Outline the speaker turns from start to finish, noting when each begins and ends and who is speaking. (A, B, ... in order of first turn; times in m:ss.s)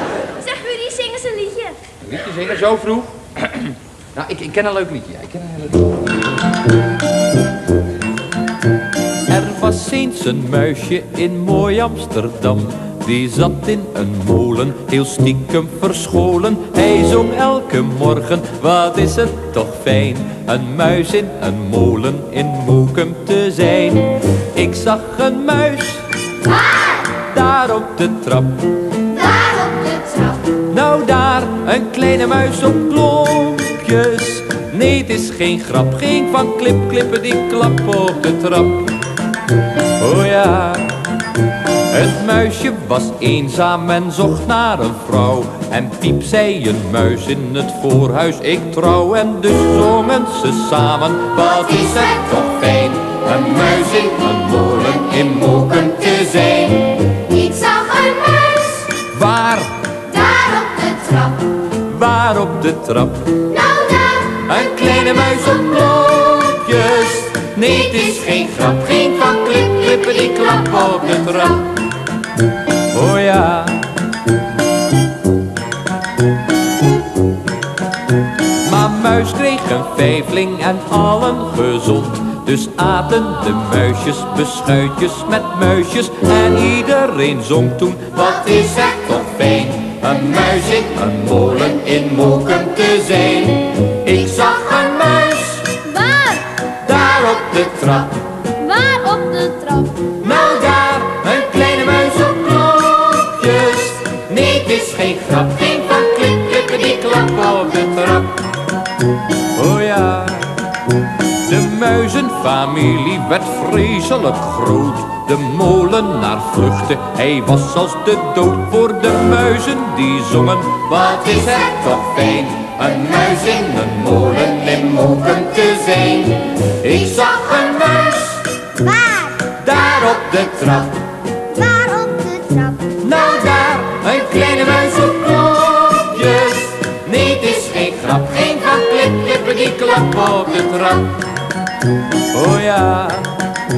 0:00.4-0:01.8 A
0:02.0-0:03.5 B
0:04.2-0:06.0 B
0:09.2-0:26.1 C
0:26.9-0:39.0 C
0:39.8-0:40.9 C
0:41.8-1:11.8 C
1:12.8-1:14.0 C
1:18.5-1:39.1 C
1:36.0-1:36.4 A
1:38.7-1:39.9 A
1:39.9-1:48.4 C
1:49.4-1:50.7 C
1:51.3-2:11.0 C
2:11.6-2:21.2 C
2:12.3-2:12.7 A
2:22.2-2:23.5 C